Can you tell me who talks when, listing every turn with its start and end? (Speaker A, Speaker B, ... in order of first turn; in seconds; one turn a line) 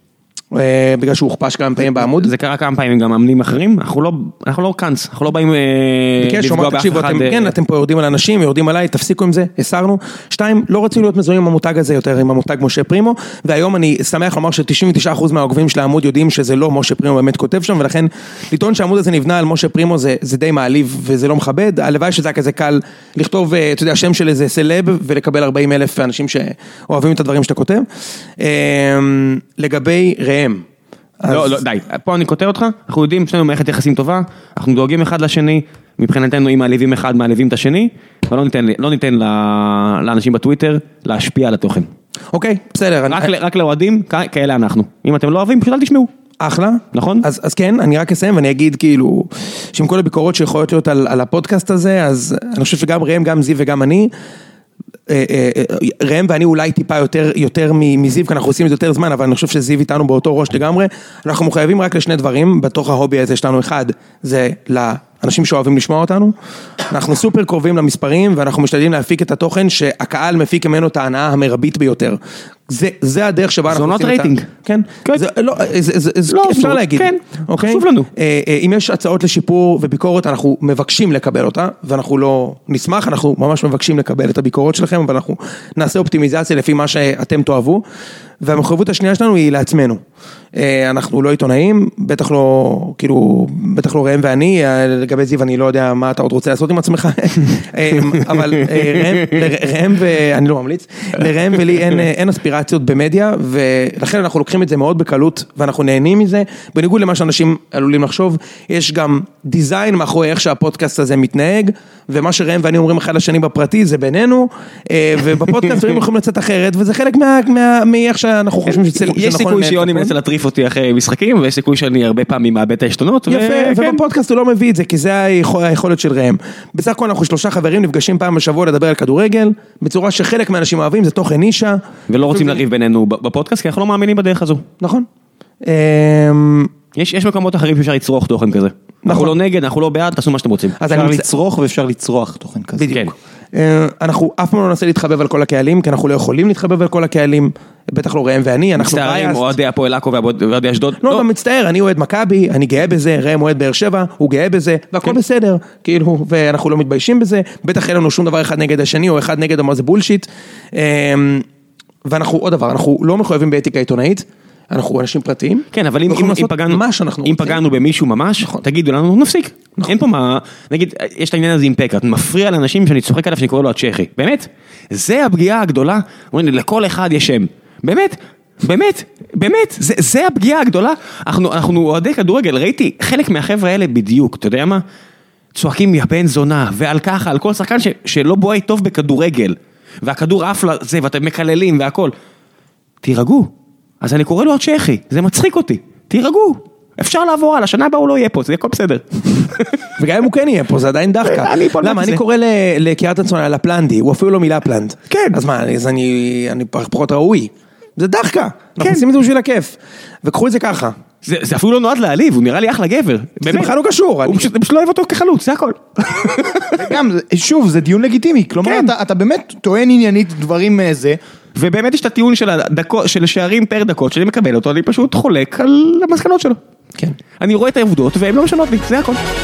Speaker A: 0.5-2.3
Speaker B: 1.8-7.5
Speaker A: 6.2-27.9
Speaker A: 28.4-30.6
Speaker A: 31.2-31.6
Speaker B: 31.3-41.9
Speaker A: 42.3-43.3
Speaker B: 43.1-46.1
Speaker A: 46.4-54.1
Speaker B: 46.9-47.2
Speaker A: 55.1-66.3
Speaker A: 66.9-87.8
Speaker B: 73.7-74.5
Speaker B: 76.3-78.1
Speaker A: 88.4-90.0
Speaker A: 90.5-120.1
Speaker B: 98.5-99.3
Speaker B: 118.7-124.0
Speaker A: 123.3-132.6
Speaker B: 132.1-134.7
Speaker A: 134.8-135.1
Speaker A: 135.6-136.7
Speaker B: 136.9-140.8
Speaker A: 139.0-139.3
Speaker A: 140.8-141.2
Speaker C: 140.9-143.0
Speaker A: 142.8-149.5
Speaker B: 148.8-151.2
Speaker A: 151.0-161.4
Speaker A: 162.0-167.6
Speaker B: 165.7-184.8
Speaker B: 185.5-192.1
Speaker B: 193.0-193.5
Speaker B: 194.0-199.8
Speaker A: 200.0-211.0
Speaker B: 201.2-202.2
Speaker B: 205.1-205.4
Speaker B: 208.8-209.0
Speaker B: 211.2-213.7
Speaker A: 213.4-214.5
Speaker B: 214.2-216.9
Speaker C: 216.7-221.2
Speaker B: 218.6-218.9
Speaker B: 221.5-226.6
Speaker B: 227.4-229.2